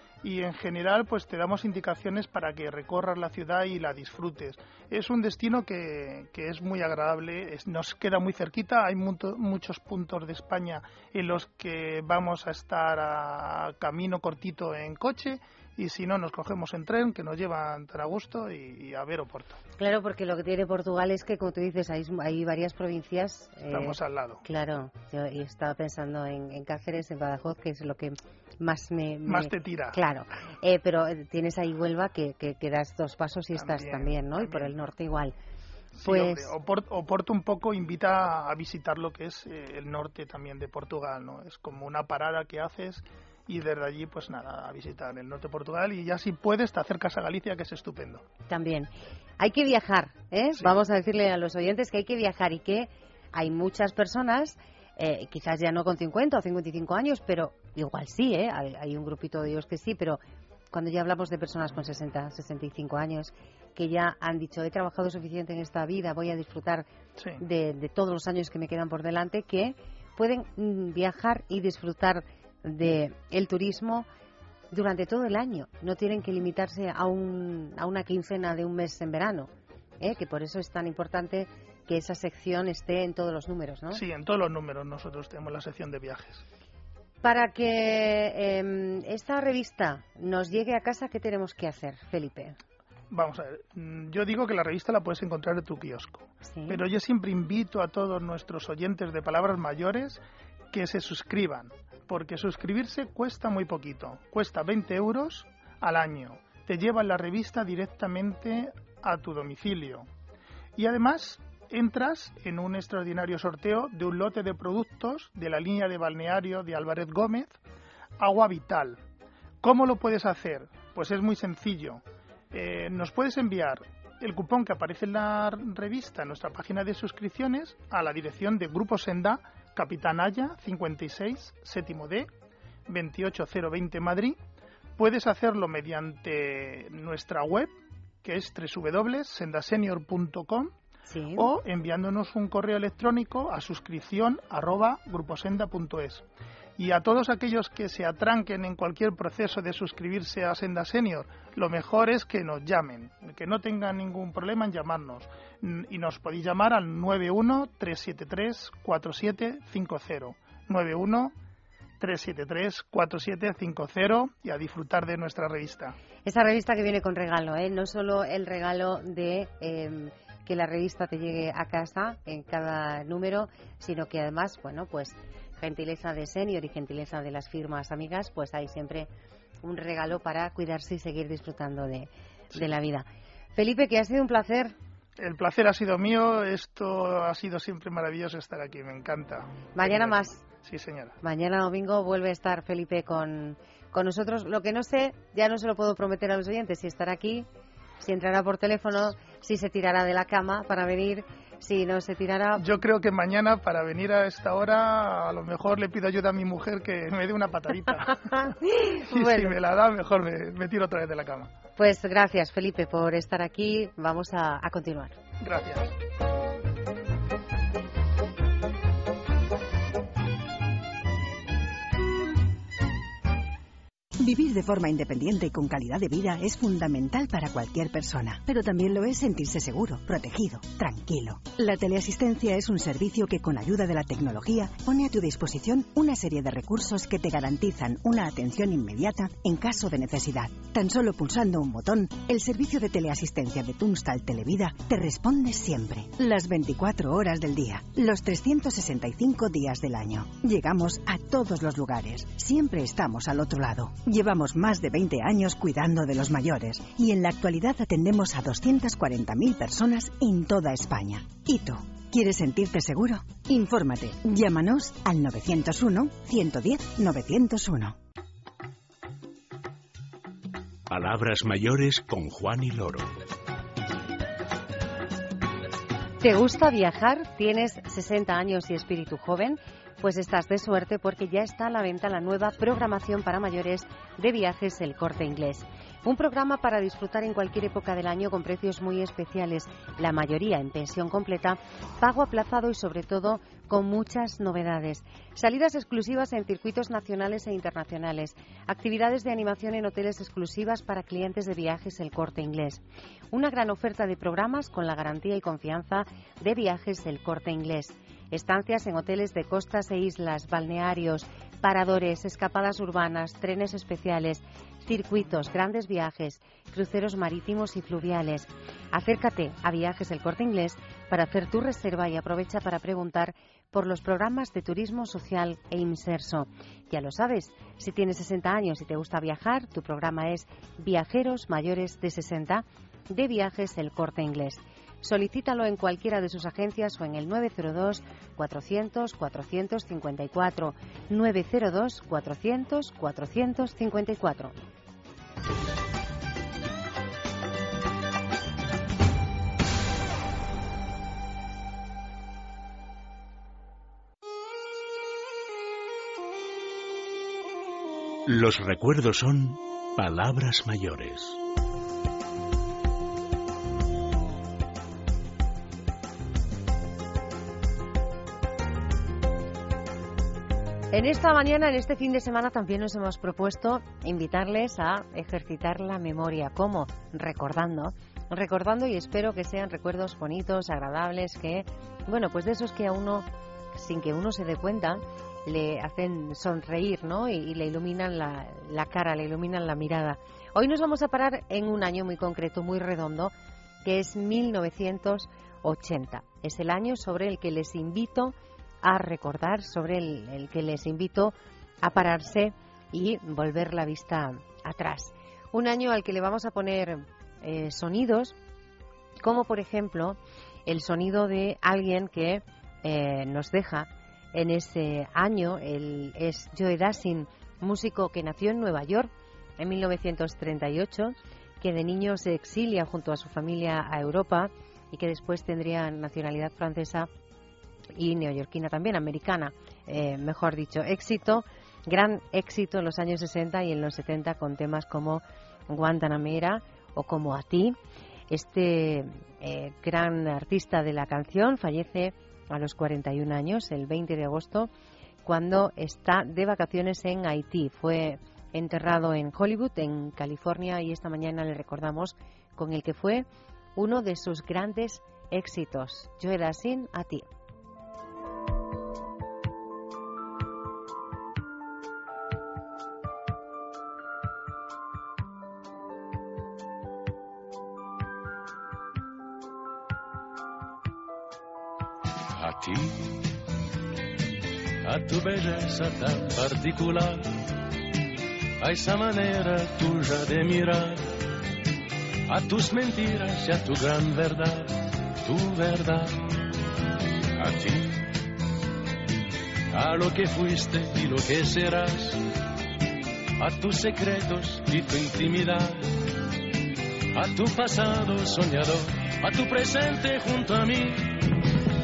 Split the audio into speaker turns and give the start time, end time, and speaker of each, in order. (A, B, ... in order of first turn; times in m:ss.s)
0:00.2-0:19.6 A
0:19.8-0:35.4 B
0:23.7-0:24.4 A
0:29.3-0:30.0 A
0:33.6-0:34.7 A
0:36.0-0:48.2 A
0:36.0-0:36.5 B
0:48.5-1:06.9 B
1:07.2-1:07.4 A
1:07.4-1:14.1 B
1:14.7-1:24.0 B
1:23.9-1:26.4 A
1:27.2-1:32.6 B
1:33.1-1:50.1 A
1:36.4-1:36.8 B
1:50.8-1:57.6 A
1:58.2-1:59.0 A
1:59.6-2:12.3 A
2:12.9-2:14.4 A
2:15.0-2:17.7 A
2:18.2-2:20.7 A
2:21.1-2:21.5 B
2:21.4-2:26.2 A
2:26.8-2:41.3 A
2:42.0-2:46.0 A
2:46.2-2:59.1 B
2:59.6-3:04.8 B
3:05.2-3:11.2 A
3:09.8-3:10.4 B
3:11.2-3:17.5 B
3:18.0-3:22.6 B
3:22.6-3:31.5 A
3:28.3-3:29.6 B
3:31.8-3:35.2 B
3:35.4-3:35.9 A
3:44.2-4:28.0 C
4:30.9-4:33.1 D
4:36.2-5:44.5 B
5:58.3-6:01.4 D
6:10.9-6:33.3 B
6:33.8-6:48.4 B
6:49.2-7:07.1 B
7:08.0-7:17.8 B
7:18.3-7:24.7 B
7:25.2-7:37.3 B
7:52.3-7:53.3 E
7:54.8-7:57.5 E
7:58.6-8:01.1 E
8:02.3-8:06.2 E
8:07.3-8:08.1 E
8:09.7-8:12.2 E
8:13.4-8:16.1 E
8:17.1-8:21.4 E